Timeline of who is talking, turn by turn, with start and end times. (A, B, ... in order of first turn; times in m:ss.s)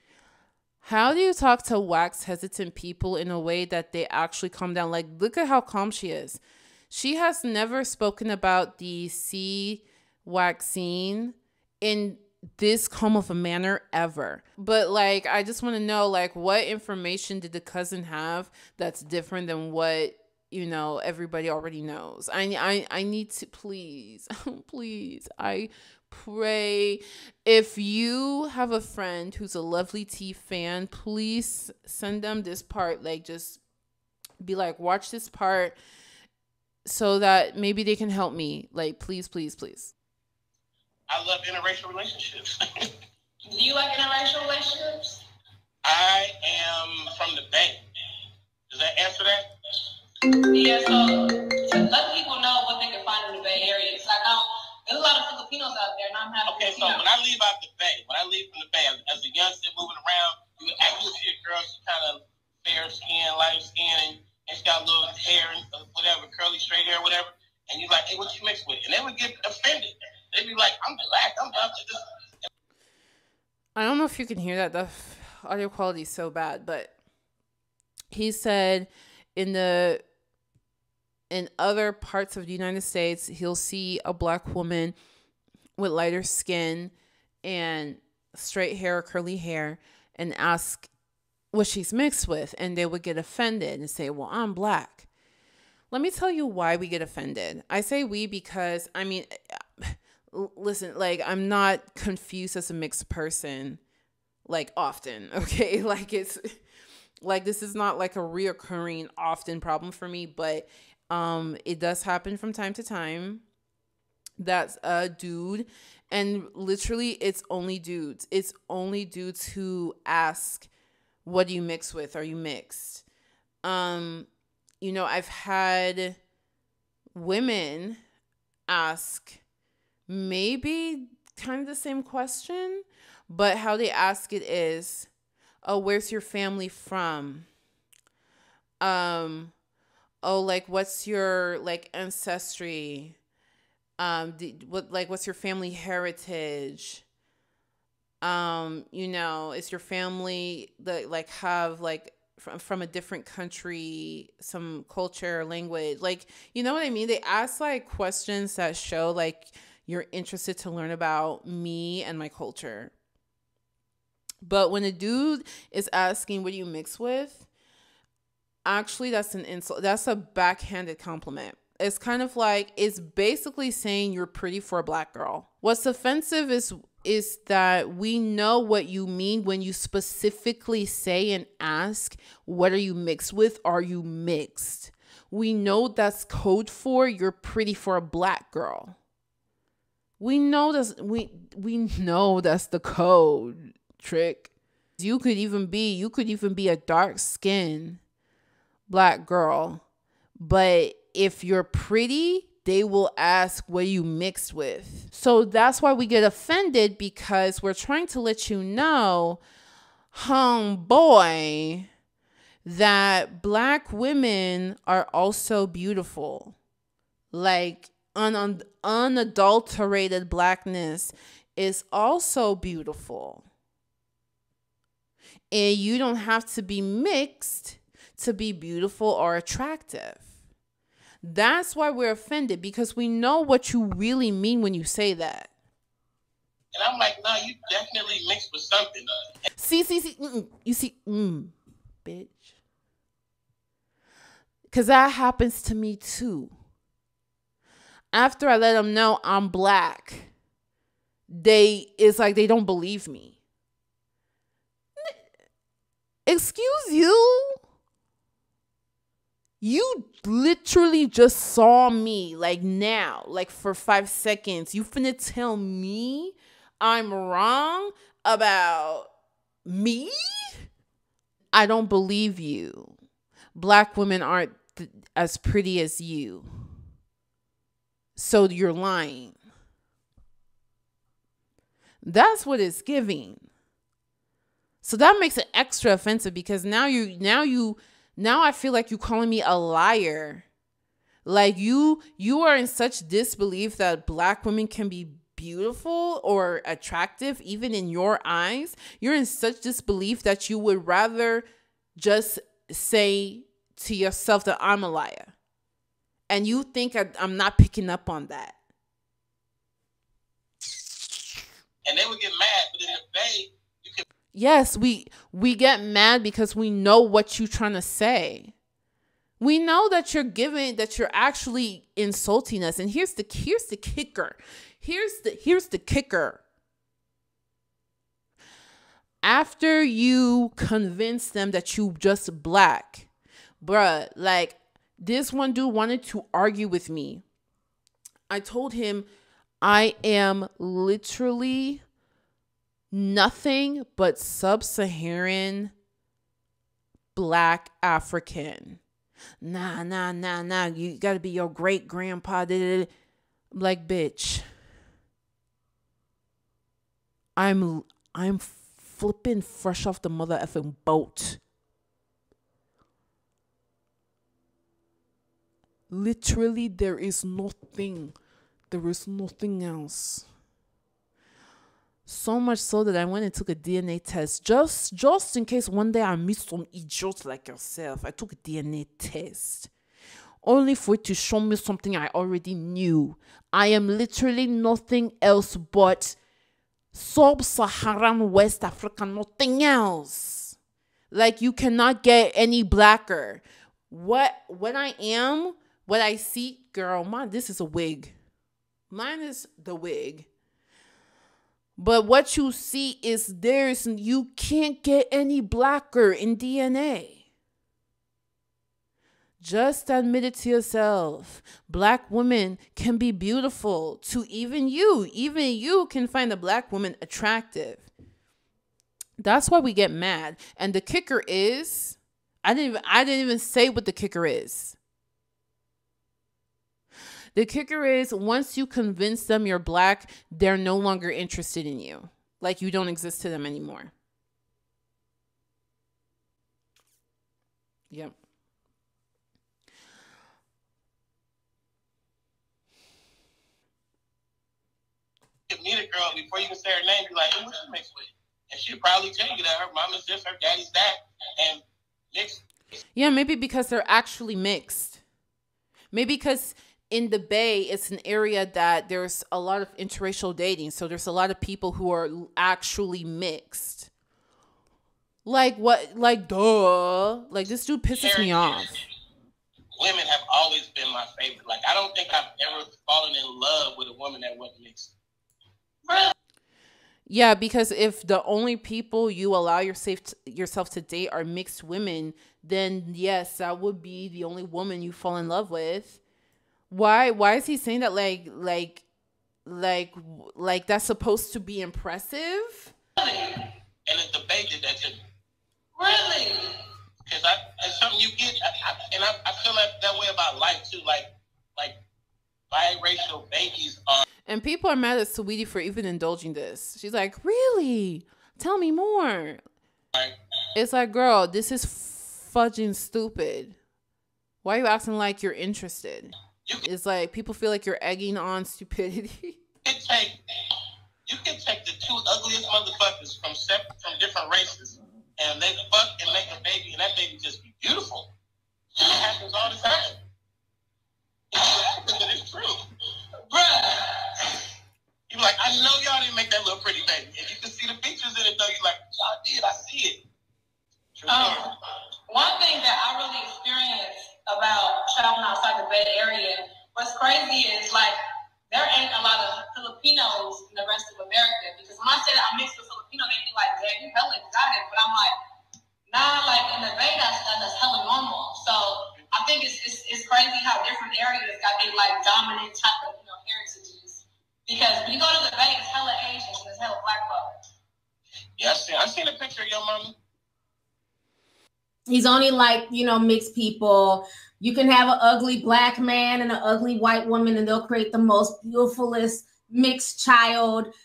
0:00.8-0:33.6 A
0:34.4-0:35.8 A
0:36.8-0:39.9 A
0:41.1-0:42.5 B
0:43.5-0:45.2 C
0:45.8-0:47.8 B
0:48.7-0:49.5 B
0:50.4-0:57.0 C
0:56.5-1:12.0 B
1:13.8-1:16.9 A
1:18.1-1:20.0 A
1:21.3-1:25.0 A
1:25.8-1:26.9 A
1:27.4-1:30.9 A
1:31.5-1:35.1 A
1:35.9-1:43.8 A
1:44.5-1:46.6 A
1:47.2-1:53.4 A
1:54.4-2:00.7 A
2:01.2-2:03.0 A
2:03.6-2:04.3 A
2:04.8-2:06.2 A
2:07.1-2:08.0 A
2:08.7-2:09.4 A
2:10.1-2:15.1 A
2:15.6-2:17.5 A
2:18.8-2:19.5 A
2:20.2-2:23.2 A
2:24.0-2:27.0 A
2:28.2-2:42.9 A
2:44.4-2:47.5 A
2:48.6-3:09.0 A
3:10.2-3:18.0 A
3:18.9-3:19.8 A
3:20.4-3:29.4 A
3:30.1-3:31.9 A
3:32.6-3:36.6 A
3:37.3-3:43.4 A
3:45.5-3:50.2 A
3:51.2-3:55.5 A
3:56.7-3:59.1 B
3:59.6-4:01.5 A
4:02.0-4:02.5 A
4:04.7-4:06.5 A
4:08.1-4:10.3 A
4:11.3-4:13.4 A
4:16.2-4:17.6 A
4:19.6-4:29.1 A
4:29.6-4:30.6 A
4:31.5-4:33.0 A
4:33.6-4:36.7 A
4:38.2-4:39.4 A
4:42.0-4:43.5 A
4:44.8-4:50.4 A
4:51.2-5:01.4 A
5:02.0-5:05.3 A
5:06.3-5:08.6 A
5:11.8-5:14.0 B
5:14.3-5:18.5 A
5:19.4-5:26.4 A
5:29.2-5:33.1 A
5:33.6-5:37.2 A
5:38.3-5:39.1 A
5:39.6-5:41.8 A
5:42.9-5:45.7 A
5:47.2-5:48.8 A
5:49.4-5:52.9 A
5:53.5-5:54.5 A
5:57.4-6:01.4 A
6:05.9-6:08.2 A
6:08.7-6:10.2 A
6:12.1-6:19.7 A
6:20.4-6:26.2 A
6:26.9-6:30.6 A
6:31.1-6:38.1 A
6:38.9-6:40.3 A
6:41.8-6:47.2 A
6:49.4-6:57.9 A
6:59.2-7:04.8 A
7:07.4-7:13.9 A
7:25.5-7:32.4 B
7:33.0-7:35.0 A
7:35.9-7:43.9 A
7:45.2-7:48.8 A
7:48.0-7:48.8 B
7:49.8-7:54.9 B
7:55.9-7:56.1 C
7:57.1-8:06.0 A
8:06.7-8:08.8 A
8:09.5-8:12.7 A
8:13.0-8:13.5 C
8:13.9-8:15.0 B
8:15.8-8:16.5 C
8:17.1-8:21.8 B
8:22.5-8:24.0 B
8:24.3-8:29.4 A
8:30.6-8:33.6 A
8:34.4-8:36.1 A
8:36.6-8:39.4 A
8:39.6-8:40.2 B
8:41.1-8:48.1 B
8:48.8-8:50.0 B
8:51.3-8:52.6 B
8:53.3-8:53.9 C
8:55.1-9:00.0 B
9:00.9-9:01.6 B
9:01.1-9:01.5 C
9:02.1-9:08.0 C
9:08.5-9:15.1 C
9:15.9-9:27.3 C
9:28.4-9:29.9 B
9:31.9-9:40.7 D